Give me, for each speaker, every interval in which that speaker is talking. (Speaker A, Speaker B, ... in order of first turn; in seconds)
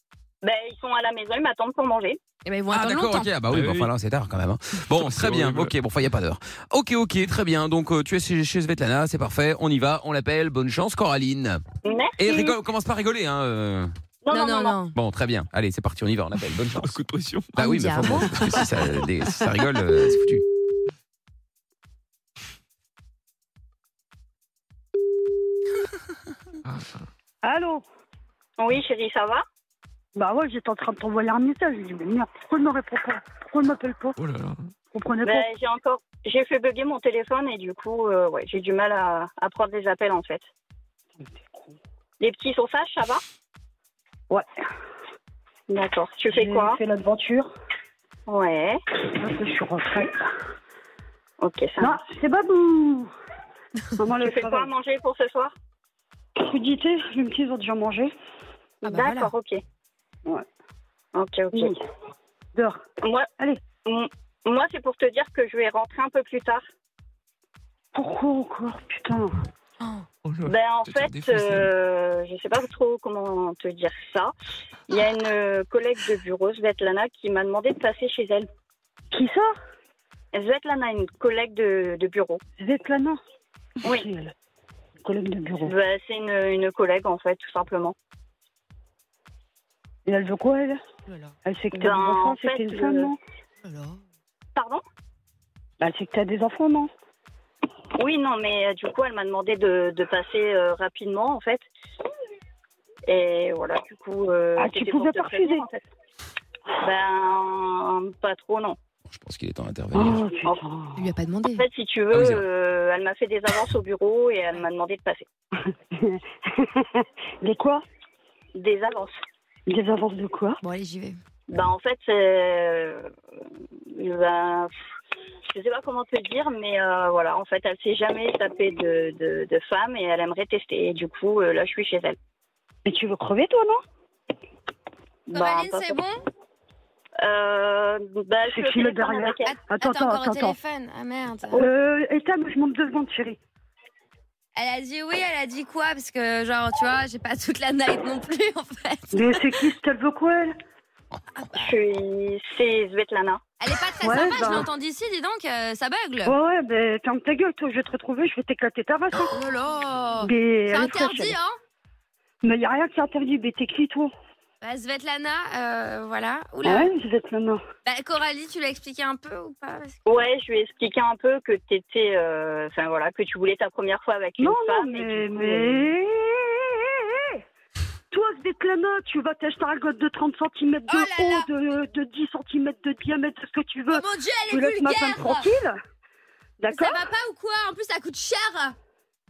Speaker A: 0.4-2.2, 11.8-12.6, 14.2-14.8, 28.6-29.4, 35.2-40.5, 42.2-43.2, 45.7-46.8, 48.3-48.8, 51.4-52.0, 54.2-55.5, 58.8-59.6, 61.1-61.8, 63.0-63.3, 63.9-66.6, 70.5-74.3, 74.9-78.5, 80.3-82.4, 83.8-84.1, 85.6-88.0, 91.7-93.1, 94.5-94.8, 98.0-101.7, 103.1-105.7, 106.8-108.8, 111.5-115.3, 118.5-119.2, 121.5-123.1, 123.9-124.7, 125.5-132.2, 135.3-136.0, 137.2-139.5, 151.5-153.4, 170.1-175.9
Speaker B: 2.5-3.3, 14.3-14.9, 17.6-18.6, 58.8-59.3, 111.0-111.7, 120.6-121.2, 135.3-136.2, 139.4-141.6, 144.6-149.5, 151.4-151.7, 153.6-156.3, 159.3-161.6, 164.6-166.9, 167.9-170.0, 180.9-181.5, 183.9-185.5, 186.7-188.7
Speaker C: 2.7-11.6, 12.2-13.9, 14.9-16.9, 17.6-20.4, 109.2-110.2, 112.1-112.4
Speaker D: 3.5-3.9, 4.9-5.7, 16.8-17.5, 34.2-34.7, 70.2-71.7
Speaker E: 27.4-27.8, 30.2-34.1, 34.9-35.5, 46.3-47.5, 49.1-50.2, 51.8-53.1, 54.0-54.7, 56.4-58.1, 61.5-61.8, 62.5-62.8, 67.9-69.3, 79.1-79.5, 82.6-83.2, 83.8-84.3, 85.0-85.7, 90.1-90.8, 91.5-93.2, 95.8-96.9, 104.6-105.8, 109.9-111.0, 115.7-117.8, 119.7-120.6, 132.8-133.8, 138.5-140.6, 141.6-143.4, 149.1-150.6, 154.0-154.7, 156.2-159.5, 160.2-161.4, 162.4-164.1, 166.6-167.6, 174.4-177.4, 178.1-185.8, 186.6-187.0